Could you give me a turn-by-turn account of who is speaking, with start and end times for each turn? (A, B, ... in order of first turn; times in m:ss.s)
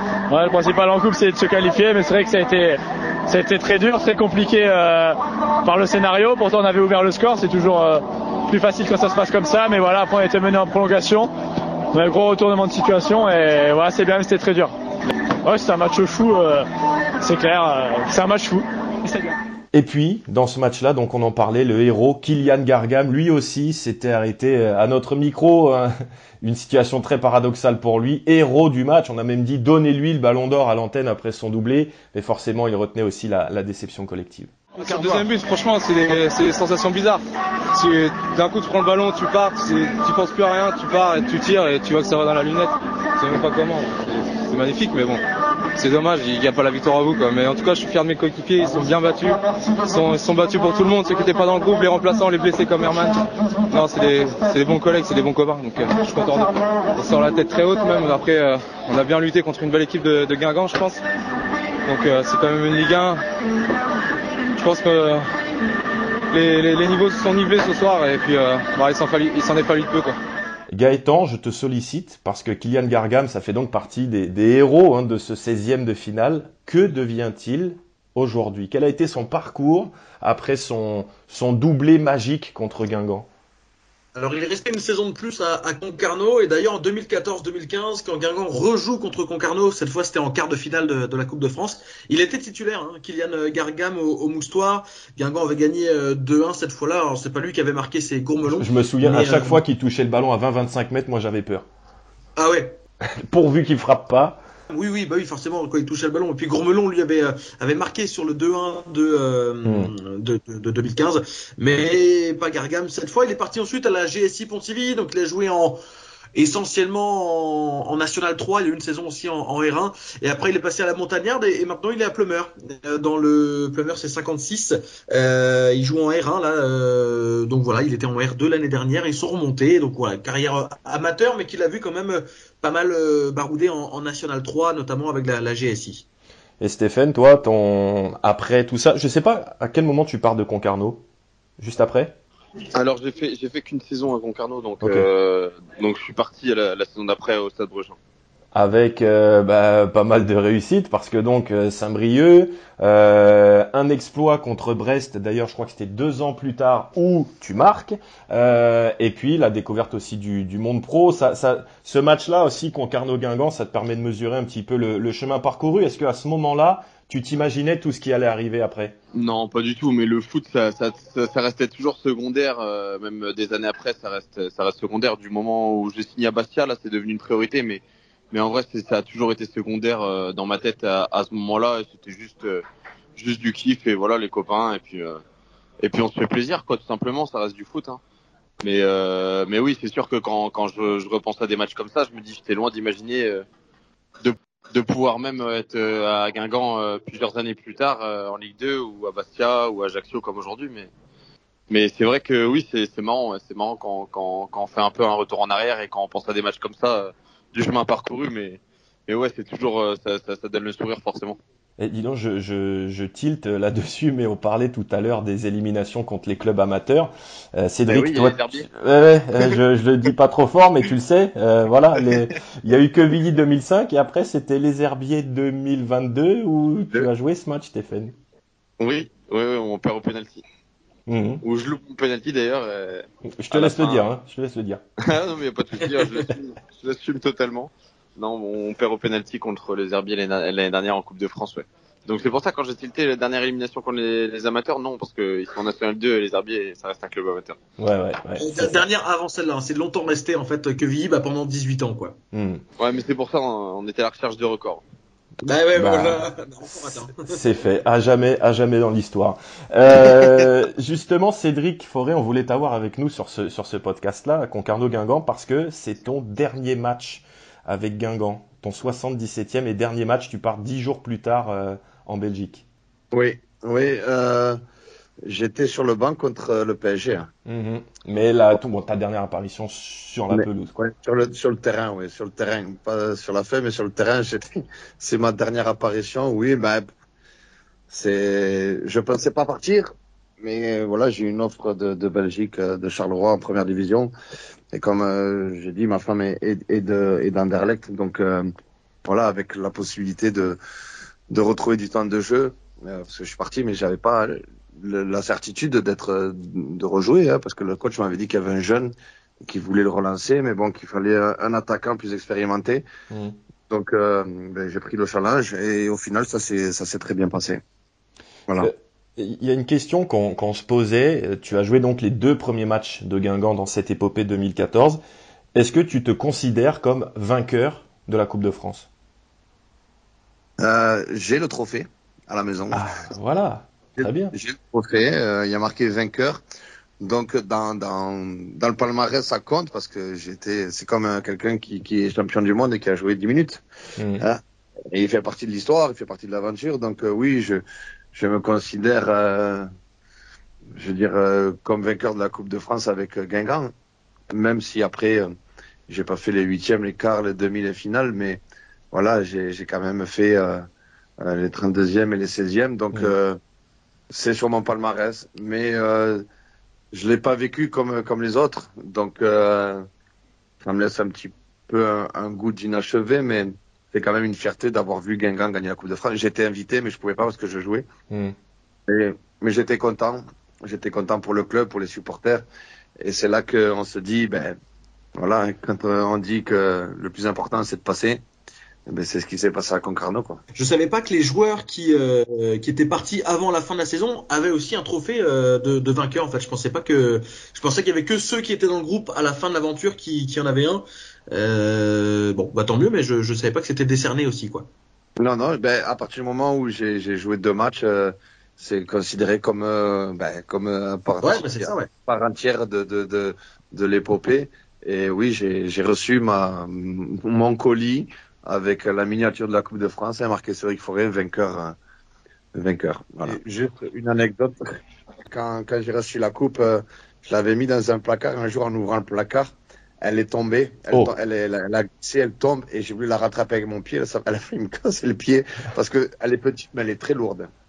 0:00.3-0:11.3 A
0:11.9-0:14.7 A
0:15.4-0:16.6 A
0:17.2-0:19.4 A
0:19.7-0:34.5 B
0:34.8-0:45.2 C
0:45.8-1:01.0 C
1:01.8-1:03.2 C
1:04.6-1:05.2 C
1:06.3-1:10.2 C
1:10.7-1:23.3 B
1:24.2-1:39.6 D
1:38.4-1:41.6 B
1:42.4-1:42.8 D
1:43.3-1:44.4 B
1:44.7-1:55.8 D
1:49.6-1:49.9 B
1:56.4-2:16.0 D
2:16.6-2:21.0 B
2:21.6-2:22.2 B
2:22.7-2:28.0 E
2:28.5-2:49.0 B
2:49.1-3:02.6 E
3:03.2-3:05.2 E
3:05.8-3:08.0 E
3:08.6-3:13.4 E
3:14.2-3:20.9 E
3:21.7-3:31.4 E
3:31.8-3:48.1 B
3:37.9-3:38.6 E
3:48.8-3:50.4 E
3:51.1-3:51.4 B
3:51.4-3:54.0 E
3:53.4-3:54.8 B
3:55.0-4:07.6 E
4:07.8-4:08.8 B
4:08.4-4:12.2 D
4:12.3-4:12.6 B
4:12.8-4:14.8 E
4:15.5-4:17.3 D
4:15.8-4:32.6 B
4:33.1-4:34.6 F
4:35.2-4:37.3 F
4:37.5-4:40.7 B
4:40.3-4:44.4 F
4:45.0-4:46.8 F
4:47.9-4:54.1 F
4:54.7-4:58.5 F
4:59.0-5:00.6 F
5:01.3-5:12.8 F
5:13.1-5:13.4 B
5:13.7-5:17.6 F
5:18.6-5:25.0 B
5:25.6-5:28.9 B
5:30.6-5:32.8 F
5:32.7-5:34.3 B
5:34.0-5:36.4 F
5:37.0-5:43.6 F
5:44.0-5:44.2 B
5:44.9-5:47.6 F
5:48.1-5:49.7 F
5:50.7-5:53.7 F
5:54.3-5:55.3 F
5:55.9-5:58.4 F
5:58.9-6:00.7 F
6:01.2-6:03.4 F
6:04.1-6:06.2 F
6:06.9-6:09.9 F
6:10.6-6:17.8 F
6:18.9-6:22.4 F
6:23.0-6:24.6 F
6:25.2-6:28.2 F
6:28.9-6:30.4 F
6:30.6-6:44.7 D
6:45.2-7:01.8 F
6:51.2-6:51.9 D
7:02.6-7:04.8 F
7:05.3-7:17.5 F
7:10.9-7:11.2 B